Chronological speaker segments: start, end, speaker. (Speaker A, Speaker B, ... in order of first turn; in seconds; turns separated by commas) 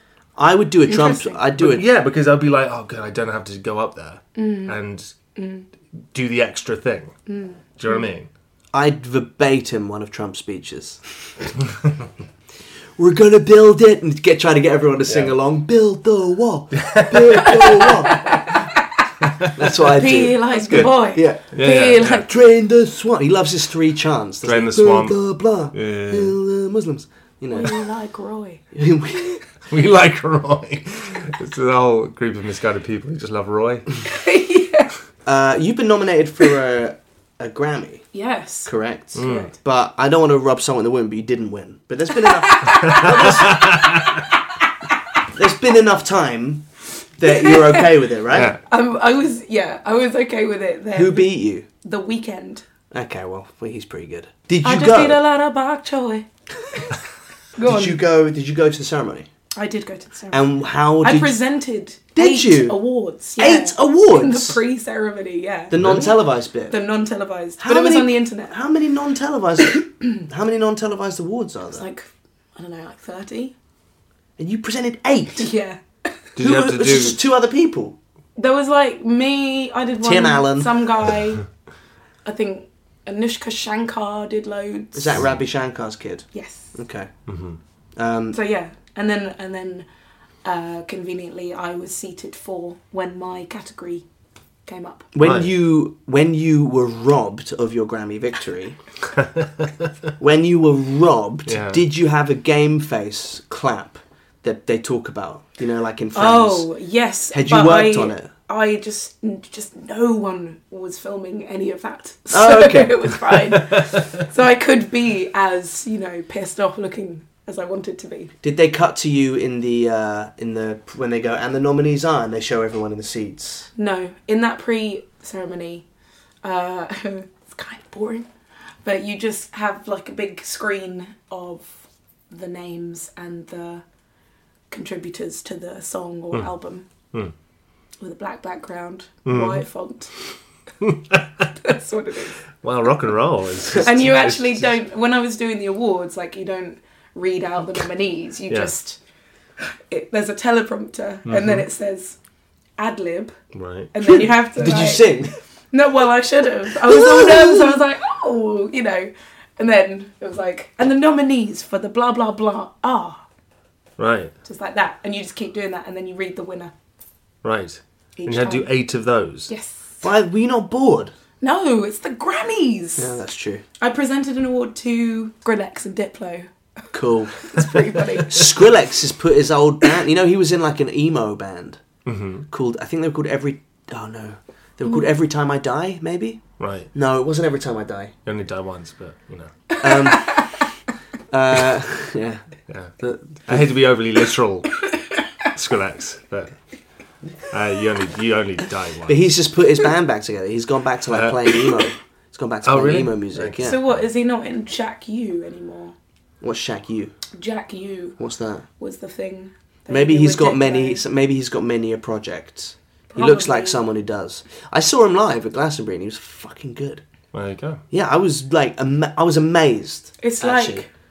Speaker A: 0.4-1.9, Speaker B: 0.9-1.4, Speaker C: 1.6-5.1, Speaker B: 4.4-4.8, Speaker B: 5.4-5.7, Speaker C: 6.1-7.2, Speaker B: 7.3-8.0, Speaker C: 7.8-8.3, Speaker A: 8.7-11.0, Speaker A: 13.0-18.4, Speaker C: 15.1-15.3, Speaker C: 16.8-17.6, Speaker B: 17.8-18.8, Speaker A: 19.5-27.8, Speaker B: 20.0-22.3, Speaker C: 21.5-22.2, Speaker C: 24.4-26.4, Speaker B: 27.5-28.6, Speaker A: 28.7-29.4, Speaker C: 29.7-33.9, Speaker B: 34.1-34.9, Speaker A: 35.3-38.1, Speaker B: 38.1-39.5, Speaker A: 38.6-43.9, Speaker C: 39.1-39.5, Speaker B: 42.3-44.1, Speaker C: 42.8-44.1, Speaker A: 45.3-46.7, Speaker A: 47.2-48.5, Speaker B: 47.3-47.9, Speaker C: 48.3-48.6, Speaker B: 48.7-52.6, Speaker A: 50.9-51.7, Speaker A: 52.9-55.2, Speaker B: 54.6-56.9, Speaker B: 57.6-58.0, Speaker A: 57.6-59.3, Speaker B: 59.6-66.1, Speaker A: 60.3-61.4, Speaker A: 62.1-62.8, Speaker A: 63.4-64.6, Speaker A: 65.7-66.8, Speaker C: 65.8-66.1, Speaker B: 66.7-68.6, Speaker A: 67.6-71.8, Speaker B: 71.7-73.5, Speaker A: 74.4-75.5, Speaker B: 75.3-76.1, Speaker C: 76.4-77.2, Speaker A: 76.4-78.0, Speaker B: 78.4-81.4, Speaker A: 80.0-80.8, Speaker B: 82.2-85.2, Speaker A: 84.9-87.1, Speaker B: 86.3-86.7, Speaker C: 87.3-87.6, Speaker A: 88.0-88.4, Speaker B: 88.3-89.9, Speaker B: 90.4-94.0, Speaker B: 94.7-95.1, Speaker A: 95.2-98.8, Speaker C: 95.2-95.5, Speaker C: 99.2-99.7, Speaker A: 100.2-106.7, Speaker C: 101.5-101.8, Speaker B: 106.2-118.3, Speaker A: 107.3-108.3, Speaker A: 112.3-113.2, Speaker A: 118.4-123.7, Speaker B: 123.8-125.8, Speaker B: 126.4-128.3, Speaker B: 128.8-133.8, Speaker B: 134.7-136.9, Speaker B: 138.0-140.1, Speaker C: 139.3-139.6, Speaker C: 140.8-141.5, Speaker B: 141.6-142.4, Speaker C: 142.6-144.7, Speaker B: 143.8-149.0, Speaker B: 149.7-152.2, Speaker C: 151.3-151.7, Speaker B: 152.8-153.3, Speaker C: 153.5-153.9, Speaker B: 153.9-155.2, Speaker A: 154.0-155.3, Speaker B: 155.7-163.2, Speaker A: 156.9-157.3, Speaker C: 164.0-164.3, Speaker B: 164.4-166.7, Speaker C: 167.4-169.5, Speaker B: 168.2-168.7, Speaker B: 169.5-170.0, Speaker A: 170.0-171.1, Speaker B: 171.4-173.2, Speaker A: 173.0-173.7, Speaker B: 173.8-176.5, Speaker A: 176.9-177.5, Speaker B: 177.4-178.4, Speaker A: 178.3-181.8, Speaker C: 182.1-182.5, Speaker A: 182.5-188.1, Speaker C: 186.6-186.9, Speaker C: 188.3-189.5, Speaker B: 189.7-190.6, Speaker A: 189.8-190.4, Speaker A: 191.3-192.4, Speaker C: 192.7-194.8, Speaker A: 193.0-193.7, Speaker C: 195.5-196.6, Speaker C: 197.5-199.2, Speaker A: 199.1-203.8, Speaker C: 201.1-201.6, Speaker C: 202.6-203.8, Speaker B: 203.6-205.9, Speaker A: 206.4-207.2, Speaker B: 207.3-208.2, Speaker A: 208.2-208.7, Speaker B: 208.8-211.0, Speaker A: 209.9-217.0, Speaker B: 213.1-213.8, Speaker C: 217.3-217.8, Speaker A: 217.9-220.9, Speaker B: 220.2-220.9